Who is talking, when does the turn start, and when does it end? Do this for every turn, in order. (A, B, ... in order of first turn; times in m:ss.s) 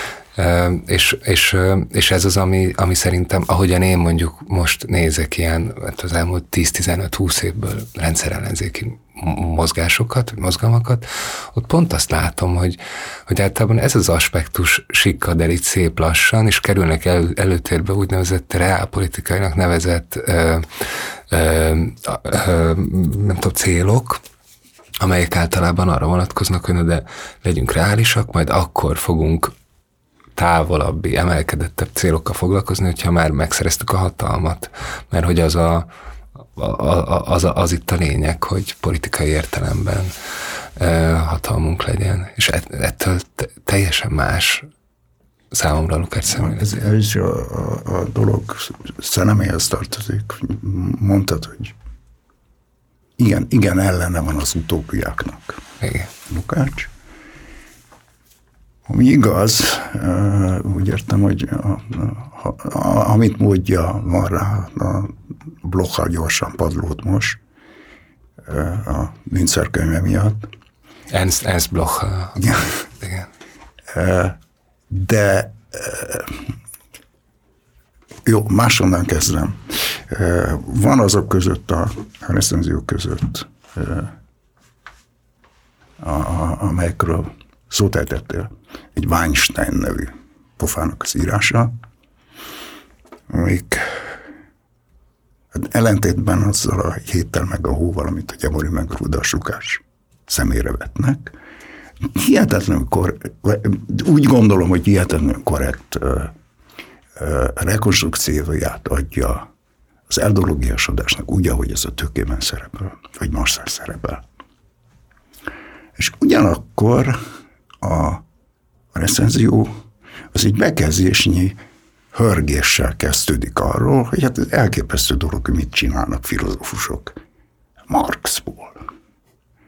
0:00.4-0:24.2 A
0:25.0-0:29.5 A
0:30.4-0:35.9 A
0:36.6-0:40.2 A
0:40.8-0:44.7 A
0:45.5-0:46.8 A
0:46.3-0:51.7 B
0:53.2-0:55.6 B
0:55.8-0:56.1 A
0:56.3-0:56.9 B
0:58.9-1:07.4 B
1:08.5-1:10.5 B
1:11.1-1:13.3 A
1:13.9-1:14.4 B
1:14.9-1:16.4 B
1:18.3-1:24.1 B
1:26.0-1:31.7 B
1:33.3-1:34.1 B
1:35.5-1:41.4 B
1:42.1-1:46.4 B
1:47.2-1:49.5 B
1:50.1-1:54.2 B
1:56.0-1:57.2 B
1:57.8-1:58.2 B
1:58.9-1:59.7 B
2:00.3-2:01.6 B
2:02.1-2:07.2 B
2:07.9-2:08.8 B